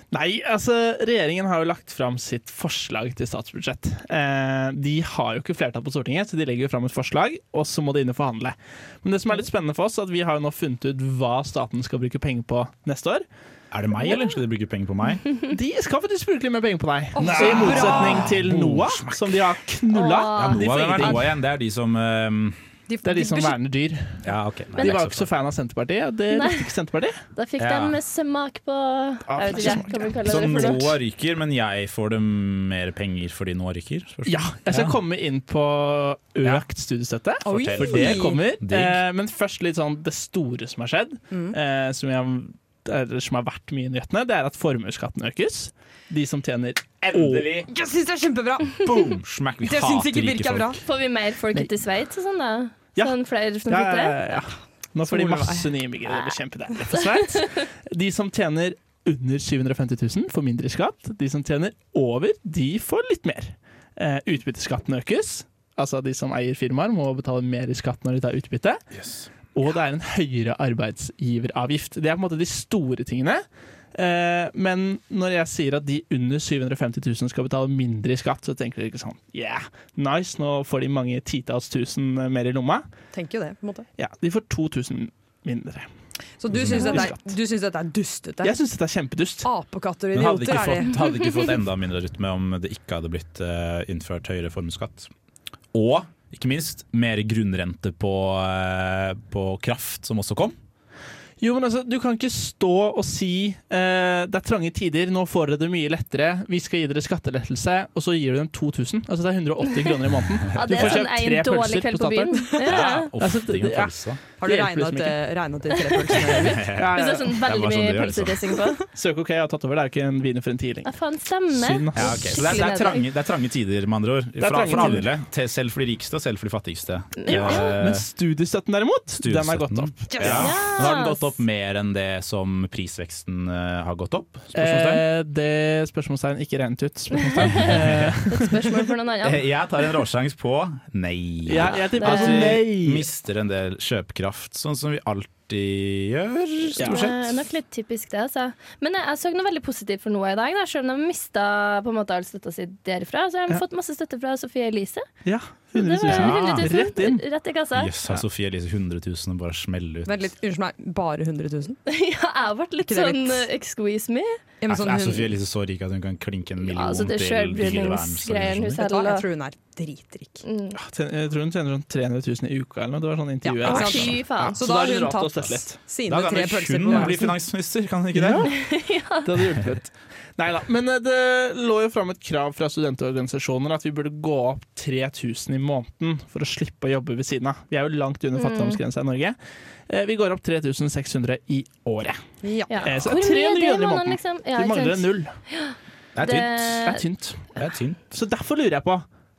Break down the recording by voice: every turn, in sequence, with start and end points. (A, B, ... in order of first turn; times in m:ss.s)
0:00.1-0:13.2 A
0:13.7-0:15.2 B
0:15.5-0:21.3 A
0:17.2-0:18.3 C
0:17.2-0:19.4 B
0:19.9-0:20.7 D
0:20.3-0:22.6 B
0:22.9-0:23.6 C
0:23.0-0:24.2 A
0:24.2-0:25.3 B
0:24.8-0:27.2 A
0:26.3-0:26.6 D
0:27.3-0:31.0 D
0:27.6-0:28.0 B
0:29.3-0:30.1 A
0:29.6-0:30.0 C
0:30.2-0:35.0 B
0:34.2-0:47.5 A
0:37.4-0:38.4 C
0:37.4-0:39.0 B
0:41.3-0:41.6 C
0:47.0-0:47.7 B
0:47.7-0:48.9 C
0:48.7-0:50.8 B
0:49.6-0:50.8 C
0:50.8-0:54.2 D
0:53.7-1:08.8 A
0:55.0-0:55.7 C
1:09.5-1:13.4 A
1:13.9-1:22.8 A
1:23.1-1:23.8 C
1:24.0-1:25.9 A
1:26.4-1:28.6 C
1:26.5-1:27.0 B
1:26.5-1:27.2 A
1:28.4-1:29.5 A
1:29.4-1:31.0 C
1:30.1-1:35.1 B
1:35.7-1:40.6 B
1:41.4-1:52.6 A
1:50.5-1:53.1 D
1:50.6-1:51.0 B
1:52.6-1:54.2 B
1:53.2-1:55.2 A
1:54.4-1:56.7 C
1:56.3-1:58.6 B
1:56.8-1:57.3 A
1:56.9-1:58.8 D
1:58.9-2:00.9 A
2:00.8-2:03.0 D
2:01.5-2:02.6 A
2:01.9-2:08.0 B
2:04.4-2:05.1 A
2:07.2-2:07.8 D
2:07.3-2:10.5 A
2:09.2-2:15.0 B
2:10.1-2:10.6 C
2:10.3-2:11.4 D
2:14.5-2:18.7 A
2:17.3-2:17.7 D
2:17.5-2:18.2 B
2:18.3-2:19.4 D
2:19.2-2:27.4 B
2:21.5-2:23.0 A
2:21.9-2:22.5 D
2:26.8-2:27.0 A
2:26.8-2:35.0 D
2:35.2-2:37.2 A
2:35.7-2:37.9 D
2:36.0-2:36.7 B
2:37.7-2:40.3 B
2:40.0-2:41.8 C
2:41.9-2:44.4 D
2:42.8-2:43.5 C
2:44.6-2:45.3 C
2:44.7-2:48.8 B
2:46.6-2:49.2 D
2:48.8-2:50.4 C
2:50.4-2:50.8 D
2:50.8-2:55.8 A
2:53.4-2:57.3 C
2:53.6-2:54.6 D
2:56.0-2:58.5 B
2:56.9-2:57.2 A
2:58.1-2:58.5 A
2:58.5-2:59.2 D
2:59.2-3:09.4 A
3:08.4-3:08.8 D
3:09.9-3:12.2 A
3:12.4-3:12.9 C
3:12.7-3:17.0 D
3:12.8-3:15.3 A
3:16.1-3:16.8 B
3:16.7-3:17.5 A
3:17.5-3:18.0 B
3:18.1-3:19.0 A